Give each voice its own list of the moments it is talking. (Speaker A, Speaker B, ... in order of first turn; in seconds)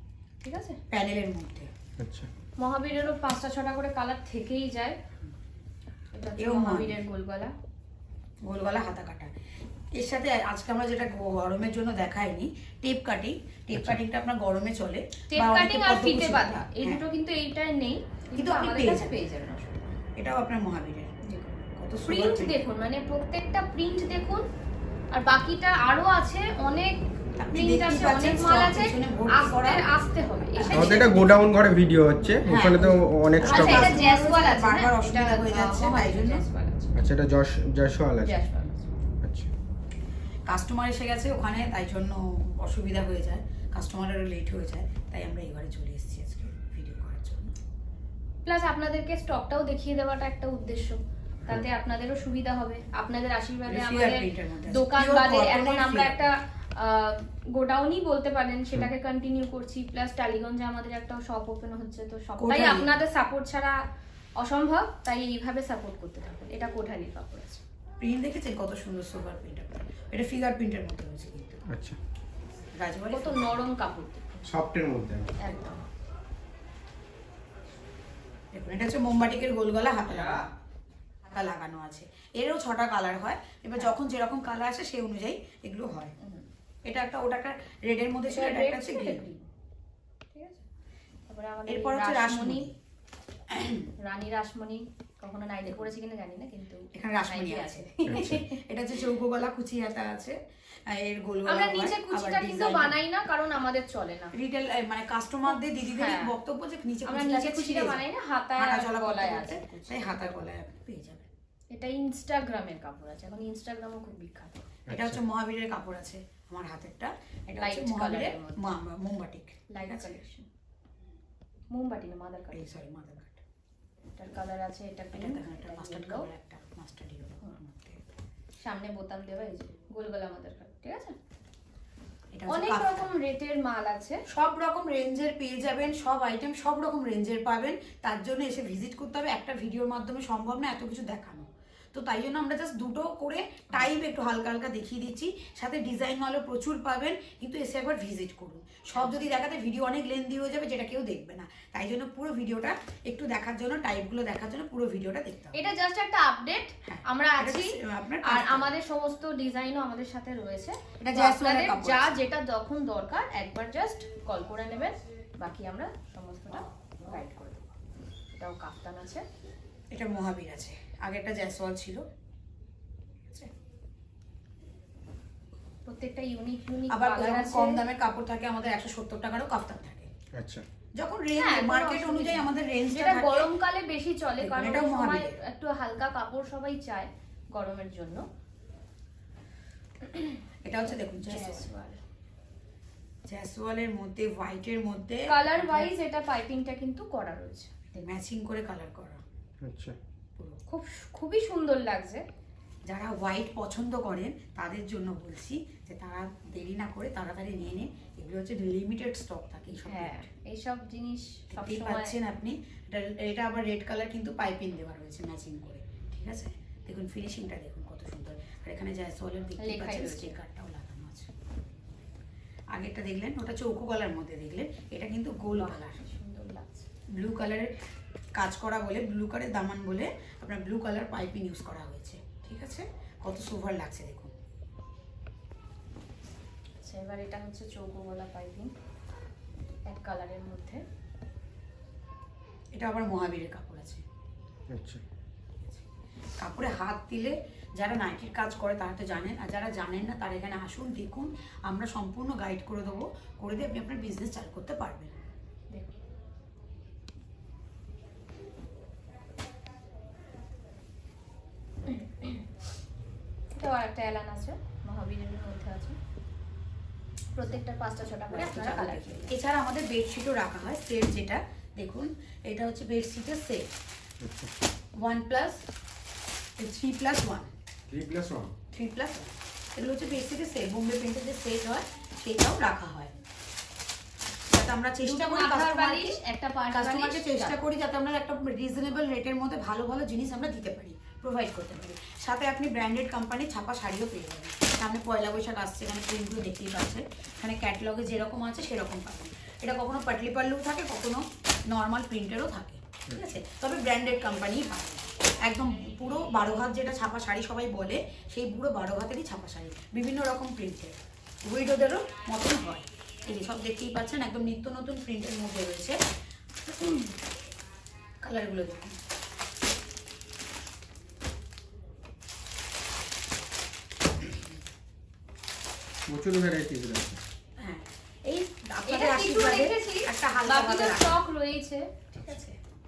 Speaker A: 0.4-0.8, 2.6-5.0, 6.1-7.5, 15.3-20.0, 21.2-24.4, 25.1-27.0, 27.5-31.5, 33.4-37.0, 38.2-38.9, 48.5-63.8, 64.4-67.6, 73.1-74.6, 75.4-75.8, 86.2-86.5, 88.3-89.5, 90.3-90.7, 91.3-92.7, 94.0-98.6, 101.5-104.3, 105.8-106.3, 107.0-110.2, 111.7-114.7, 117.6-118.7, 119.7-120.5, 121.7-122.8, 124.2-126.3, 128.6-131.2, 132.5-134.2, 155.5-167.6, 168.3-169.2, 175.8-177.8, 181.4-188.3, 190.1-192.0, 195.3-197.9, 200.7-202.2, 209.9-212.2, 219.6-220.4, 225.5-226.9, 236.8-238.7, 239.9-240.8, 261.9-262.5, 263.5-266.0, 267.3-269.4, 285.0-287.6, 328.9-332.4
Speaker B: 0.9-1.7, 6.4-7.0, 8.4-9.3, 9.9-17.0, 18.4-19.1, 20.2-21.1, 21.8-22.6, 27.4-29.9, 30.5-31.4, 32.5-36.4, 40.5-47.5, 53.7-56.3, 62.4-63.0, 68.0-71.6, 72.8-73.6, 78.5-80.5, 81.3-86.2, 86.9-89.2, 91.7-92.7, 93.5-93.9, 96.9-103.0, 104.3-108.0, 108.6-111.3, 114.9-120.2, 122.5-123.4, 125.1-128.0, 132.3-133.1, 134.3-155.6, 156.8-158.7, 161.0-162.2, 169.9-172.0, 173.3-173.5, 176.9-180.1, 181.0-183.5, 184.4-185.4, 190.6-191.7, 193.3-195.9, 197.9-199.2, 202.9-210.3, 211.5-221.3, 222.7-226.0, 227.1-227.8, 228.4-234.3, 242.8-244.0, 246.4-255.2, 268.3-273.7, 275.0-275.6, 276.6-277.5, 278.7-283.1, 284.5-286.2, 286.7-316.0, 316.6-317.1, 318.2-319.0, 327.6-331.2, 332.1-332.6
Speaker C: 2.0-2.3, 30.7-34.0, 37.0-38.4, 39.2-39.5, 71.7-72.0, 74.5-75.4, 114.9-115.2, 180.3-180.6, 199.6-200.0, 244.7-245.0, 274.2-274.5, 277.9-278.5, 326.1-327.2